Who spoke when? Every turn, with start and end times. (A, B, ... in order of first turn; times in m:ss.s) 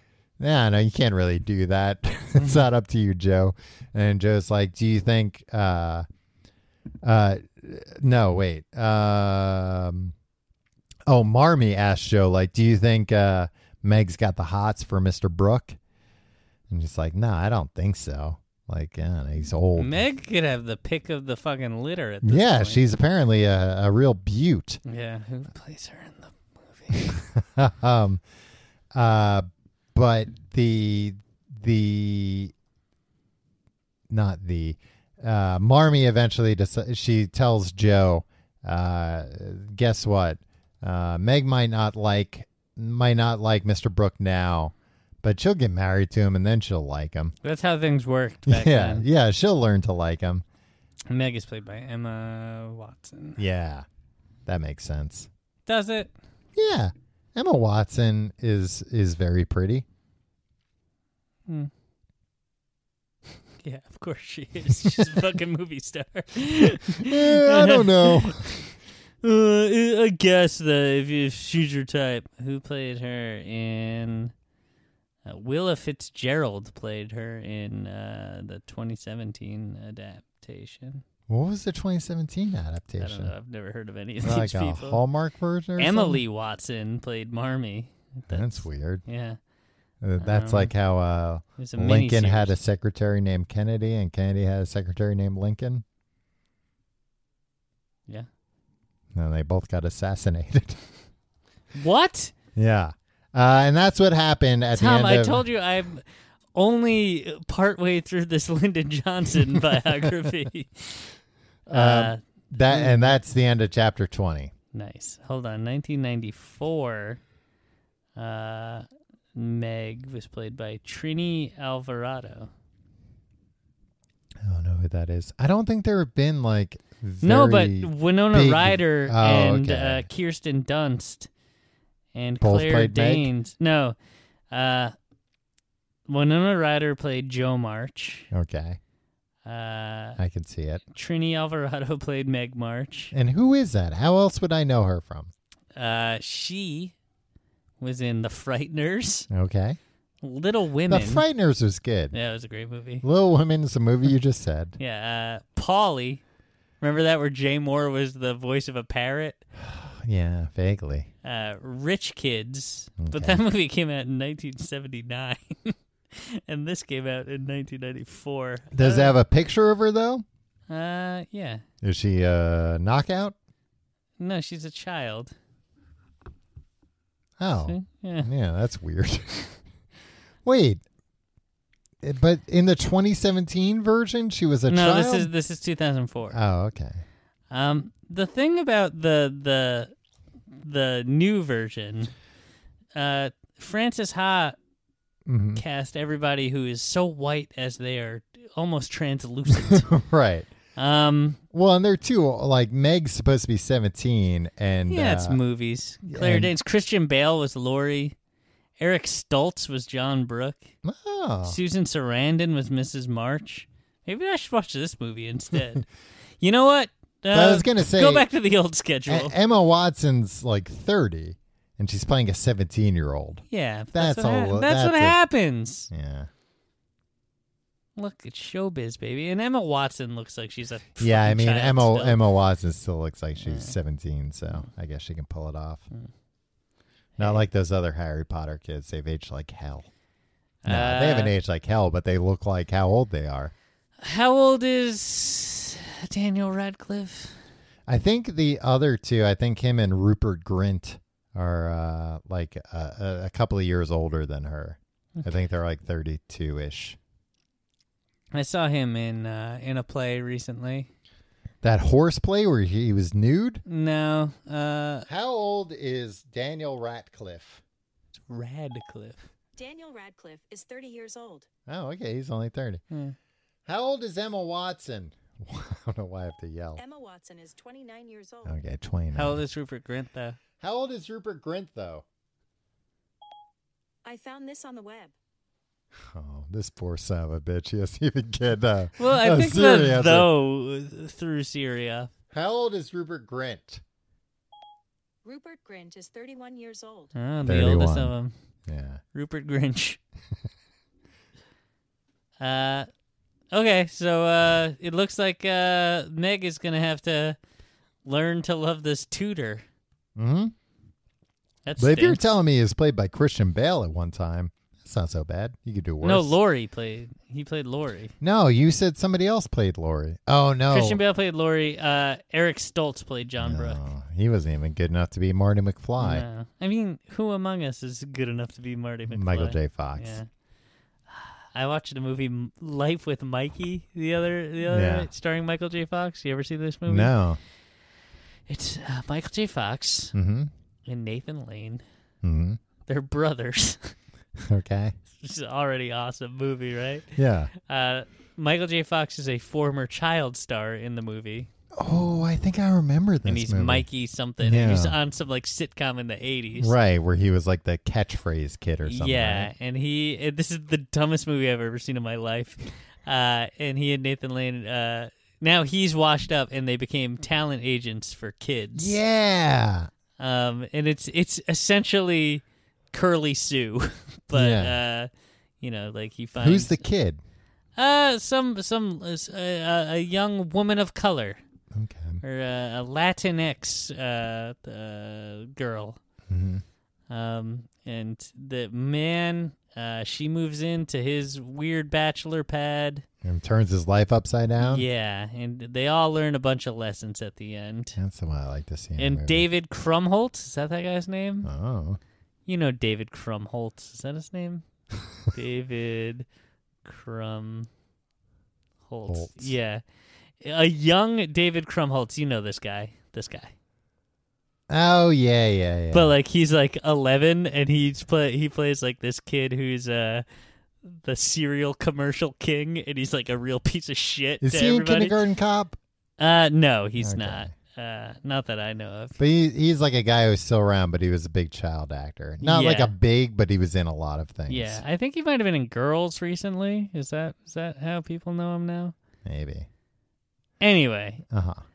0:00.4-0:06.0 A
0:02.4-0:02.6 B
0:07.0-0:10.1 A
0:11.1-0:15.8 A
0:16.7-0:20.0 A
0:19.8-0:22.8 B
0:22.2-0:24.8 A
0:24.8-0:27.2 B
0:27.1-0:28.2 A
0:28.9-0:32.5 A
0:34.1-0:47.3 A
0:47.4-0:49.1 B
0:48.5-0:50.4 A
0:51.1-0:53.4 B
0:53.4-0:53.8 A
0:54.4-0:55.3 A
0:55.6-0:56.1 B
0:56.6-0:59.8 A
1:03.6-1:08.7 B
1:06.9-1:08.5 A
1:09.2-1:14.3 B
1:15.2-1:21.0 B
1:21.3-1:23.3 A
1:23.0-1:25.0 B
1:24.2-1:26.2 A
1:25.8-1:29.4 B
1:28.3-1:29.0 A
1:30.0-1:35.8 A
1:30.2-1:30.7 B
1:31.6-1:32.5 B
1:39.1-1:40.8 A
1:41.7-1:42.3 B
1:42.6-1:45.4 A
1:44.7-1:46.0 B
1:46.5-1:51.1 B
1:51.7-1:54.5 A
1:51.7-1:53.1 B
1:54.7-1:57.2 B
1:58.2-2:02.5 B
2:04.4-2:10.0 A
2:07.2-2:11.3 B
2:12.1-2:14.0 B
2:12.4-2:13.3 A
2:14.5-2:14.9 B
2:16.1-2:18.3 B
2:18.3-2:18.8 A
2:19.4-2:20.2 B
2:20.2-2:20.8 A
2:20.9-2:23.1 B
2:23.1-2:25.3 A
2:25.7-2:26.9 B
2:27.8-2:29.3 B
2:29.3-2:29.8 A
2:30.2-2:31.2 B
2:30.9-2:32.1 A
2:32.1-2:33.0 B
2:33.0-2:34.8 A
2:34.8-2:36.2 B
2:36.8-2:39.4 B
2:39.6-2:41.1 A
2:41.2-2:49.2 B
2:43.0-2:43.4 A
2:48.7-2:50.2 A
2:50.7-2:51.6 B
2:51.8-2:53.3 A
2:54.2-2:55.3 B
2:57.4-2:59.6 A
2:57.6-2:58.3 B
3:00.4-3:00.8 A
3:02.0-3:05.3 A
3:04.7-3:06.4 B
3:06.3-3:07.0 A
3:07.5-3:09.9 B
3:10.6-3:12.1 B
3:12.9-3:14.6 B
3:15.2-3:15.6 A
3:15.6-3:19.9 B
3:19.5-3:20.5 A
3:20.8-3:21.4 B
3:21.5-3:25.4 A
3:24.9-3:28.1 B
3:26.1-3:26.5 A
3:28.8-3:30.7 B
3:30.8-3:31.6 A
3:31.4-3:35.9 B
3:36.4-3:39.3 B
3:37.3-3:38.3 A
3:39.1-3:43.4 A
3:43.5-3:45.9 B
3:43.9-3:45.2 A
3:45.9-3:46.3 A
3:48.0-3:52.2 B
3:51.0-3:55.9 A
3:53.4-3:53.7 B
3:57.2-3:59.9 A
4:00.6-4:01.3 B
4:00.6-4:03.5 A
4:04.0-4:07.4 B
4:07.9-4:17.0 A
4:18.3-4:20.9 B
4:21.6-4:23.6 A
4:23.6-4:25.1 B
4:25.1-4:27.6 A
4:28.3-4:29.2 B
4:29.6-4:31.5 C
4:31.7-4:32.8 A
4:32.9-4:33.2 B
4:33.7-4:36.8 A
4:36.8-4:38.6 C
4:38.4-4:39.4 A
4:39.1-4:40.4 B
4:40.6-4:42.0 A
4:44.0-4:45.1 C
4:46.1-4:50.3 A
4:49.0-4:52.1 B
4:52.3-4:53.8 A
4:55.2-4:57.1 C
4:57.1-4:58.3 B
4:57.4-4:58.1 A
4:58.7-4:59.0 A
4:59.1-5:00.0 B
5:02.4-5:02.9 B
5:03.5-5:07.4 B
5:08.0-5:09.6 B
5:10.2-5:10.5 A
5:11.6-5:12.2 B
5:11.8-5:16.4 A
5:16.0-5:18.1 B
5:18.2-5:21.0 A
5:20.7-5:23.8 B
5:23.4-5:26.2 A
5:26.0-5:30.3 B
5:29.1-5:30.2 A
5:31.1-5:37.1 B
5:34.7-5:35.1 A
5:36.9-5:37.4 A
5:38.5-5:40.1 B
5:40.1-5:40.5 A
5:40.8-5:41.8 B
5:42.2-5:42.6 A
5:42.9-5:44.0 B
5:44.4-5:45.0 A
5:45.1-5:51.5 B
5:47.2-5:47.5 A
5:51.7-5:53.9 A
5:53.2-5:56.7 B
5:54.4-5:54.9 A
5:56.6-5:59.5 A
5:58.8-6:09.0 B
6:08.7-6:09.9 A
6:10.2-6:15.1 B
6:14.3-6:14.8 A
6:15.6-6:16.8 B
6:16.4-6:17.2 A
6:17.8-6:21.4 B
6:21.7-6:22.2 A
6:22.2-6:26.0 B
6:26.3-6:26.6 A
6:27.1-6:33.0 B
6:33.2-6:34.8 A
6:34.6-6:38.0 B
6:38.0-6:39.4 A
6:39.0-6:41.5 B
6:41.4-6:42.0 A
6:42.5-6:44.6 B
6:45.3-6:46.2 B
6:46.8-6:47.7 B
6:48.8-6:49.8 B
6:49.1-6:49.5 A
6:50.4-6:53.5 B
6:54.7-6:56.1 A
6:55.9-7:00.2 B
7:00.8-7:05.2 B
7:04.4-7:05.8 A
7:06.2-7:09.2 B
7:07.0-7:07.5 A
7:09.2-7:14.8 A
7:12.4-7:12.9 B
7:14.5-7:18.9 B
7:19.2-7:19.7 A
7:20.6-7:21.2 B
7:21.3-7:21.6 A